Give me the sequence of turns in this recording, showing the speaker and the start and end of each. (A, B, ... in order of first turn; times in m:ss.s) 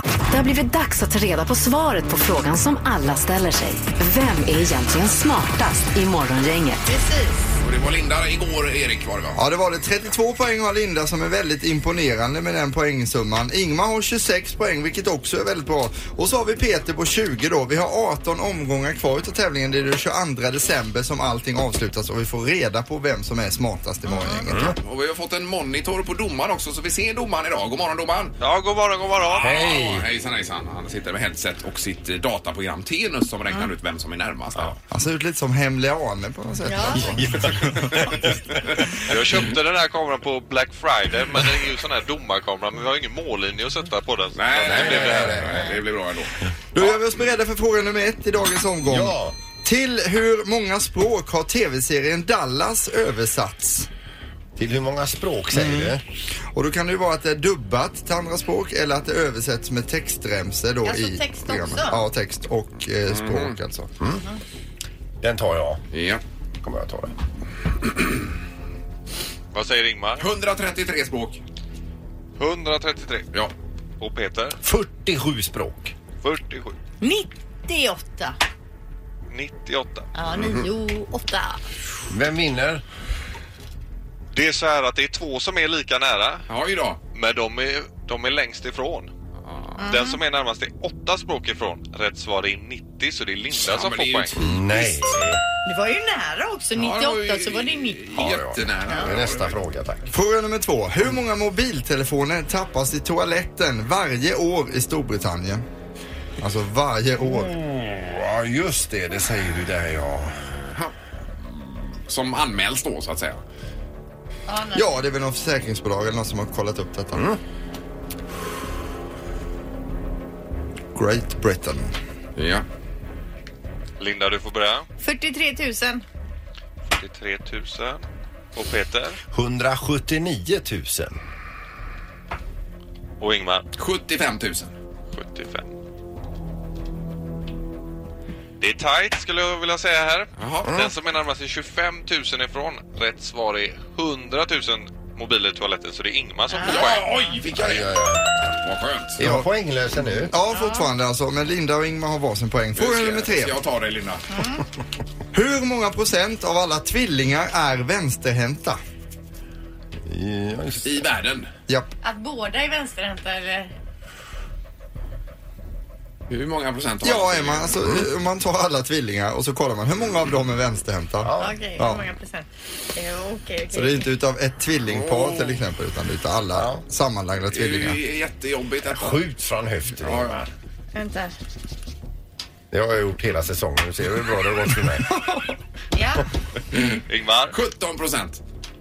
0:00.3-0:06.8 A
0:06.9-0:07.5 B
0:07.6-0:09.5 C
0:09.4-0:24.7 D
0:24.5-0:24.8 E
0:24.8-0:28.4 C
0:28.4-0:29.7 F
0:29.4-0:34.8 C
0:29.4-0:30.0 E
0:34.9-0:37.9 D
0:36.7-0:37.1 B
0:37.1-0:38.3 E
0:39.1-0:45.6 F
0:44.4-0:47.0 C
0:44.7-0:45.6 E
0:46.7-0:53.9 D
0:48.8-0:49.4 E
0:54.6-0:56.0 E
0:55.5-0:55.9 D
0:56.5-1:03.9 D
1:00.8-1:02.0 B
1:03.1-1:03.6 C
1:05.2-1:05.8 E
1:05.9-1:06.2 C
1:06.6-1:07.1 E
1:09.5-1:10.2 F
1:10.2-1:11.4 C
1:12.4-1:13.3 F
1:14.0-1:14.6 F
1:14.6-1:16.0 E
1:16.2-1:16.8 F
1:17.0-1:18.4 B
1:19.3-1:20.1 F
1:20.2-1:21.6 B
1:22.1-1:22.8 E
1:24.3-1:26.4 F
1:26.5-1:27.0 C
1:27.1-1:29.1 F
1:29.5-1:29.8 C
1:29.8-1:30.2 B
1:29.8-1:34.4 F
1:33.6-1:35.2 C
1:34.4-1:35.4 E
1:35.7-1:38.0 B
1:36.8-1:39.6 C
1:38.2-1:40.1 E
1:40.1-1:45.6 D
1:46.4-1:47.5 D
1:47.2-1:50.5 E
1:51.4-1:53.4 C
1:54.5-1:55.0 B
1:54.7-1:57.2 D
2:00.9-2:01.9 D
2:02.4-2:02.6 C
2:04.0-2:04.9 F
2:05.0-2:06.0 B
2:06.9-2:08.0 F
2:08.5-2:09.2 F
2:09.3-2:11.2 E
2:13.2-2:13.6 F
2:13.8-2:14.7 C
2:15.1-2:15.7 F
2:18.6-2:27.1 F
2:20.4-2:20.7 C
2:26.5-2:26.9 B
2:26.6-2:29.2 C
2:27.6-2:28.5 E
2:29.2-2:30.3 E
2:30.3-2:33.6 D
2:30.5-2:30.9 B
2:32.8-2:34.3 C
2:34.3-2:34.6 B
2:35.3-2:38.8 D
2:40.0-2:41.0 E
2:40.8-2:41.5 C
2:42.0-2:43.7 B
2:46.3-2:47.9 C
2:47.0-2:52.1 D
2:51.2-2:51.6 E
2:51.4-2:54.1 B
2:53.7-2:58.0 D
2:54.9-2:55.6 C
2:56.5-2:56.8 E
2:57.5-2:59.2 C
2:58.9-3:00.5 E
3:00.0-3:00.4 C
3:01.0-3:01.4 B
3:02.7-3:05.1 E
3:05.9-3:06.2 B
3:06.7-3:08.4 C
3:07.1-3:07.6 F